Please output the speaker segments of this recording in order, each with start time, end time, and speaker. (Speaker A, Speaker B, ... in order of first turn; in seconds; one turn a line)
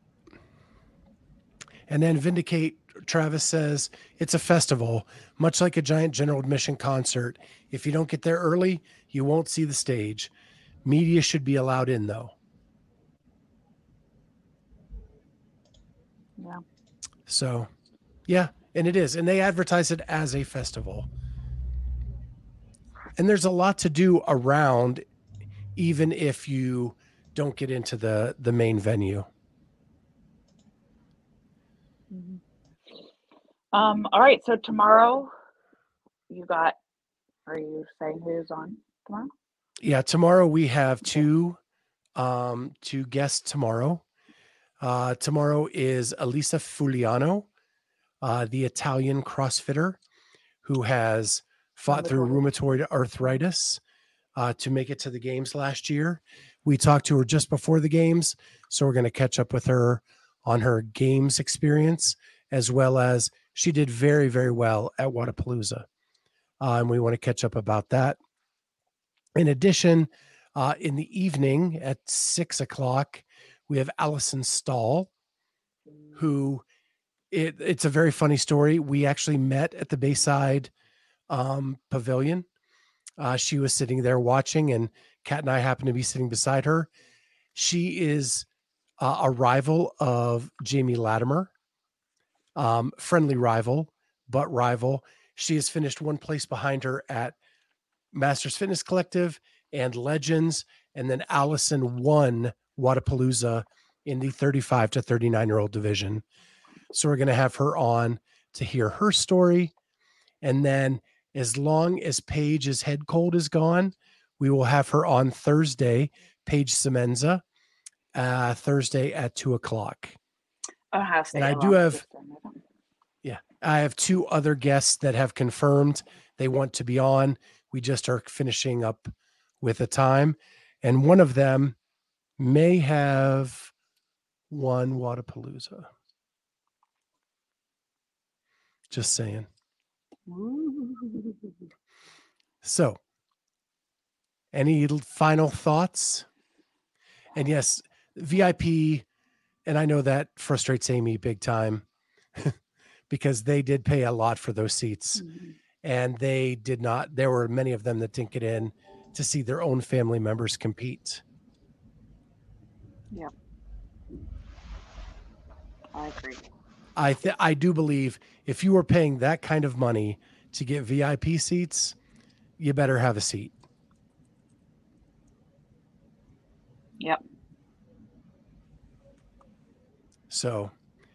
Speaker A: 1.9-10.3
Speaker A: 10.8-12.3
Speaker A: 17.3-17.7
Speaker A: 18.3-21.1
Speaker A: 23.2-25.0
Speaker A: 25.8-29.3
Speaker B: 32.1-32.4
Speaker B: 33.7-35.3
Speaker B: 36.3-36.8
Speaker B: 37.5-39.3
Speaker A: 39.8-41.6
Speaker A: 42.2-44.0
Speaker A: 44.8-47.5
Speaker A: 48.2-50.0
Speaker A: 50.6-53.8
Speaker B: 51.9-52.4
Speaker A: 54.4-65.9
Speaker A: 66.6-68.2
Speaker A: 69.4-75.1
Speaker A: 76.1-76.6
Speaker A: 77.3-80.7
Speaker A: 81.3-82.5
Speaker A: 83.2-86.9
Speaker A: 87.5-88.5
Speaker A: 89.0-91.5
Speaker A: 92.5-97.4
Speaker A: 98.1-106.2
Speaker A: 106.9-109.7
Speaker A: 110.4-117.4
Speaker A: 118.2-120.2
Speaker B: 120.9-122.6
Speaker A: 121.3-122.0
Speaker A: 123.2-131.8
Speaker A: 132.4-133.7
Speaker A: 134.5-135.9
Speaker A: 138.9-139.5
Speaker B: 140.3-141.5
Speaker A: 142.6-143.0
Speaker A: 144.5-146.3
Speaker A: 147.3-149.1
Speaker A: 149.7-155.2
Speaker B: 155.2-155.6
Speaker A: 155.8-161.2
Speaker B: 165.9-166.5
Speaker A: 167.0-172.0
Speaker A: 172.6-173.5
Speaker A: 180.3-180.7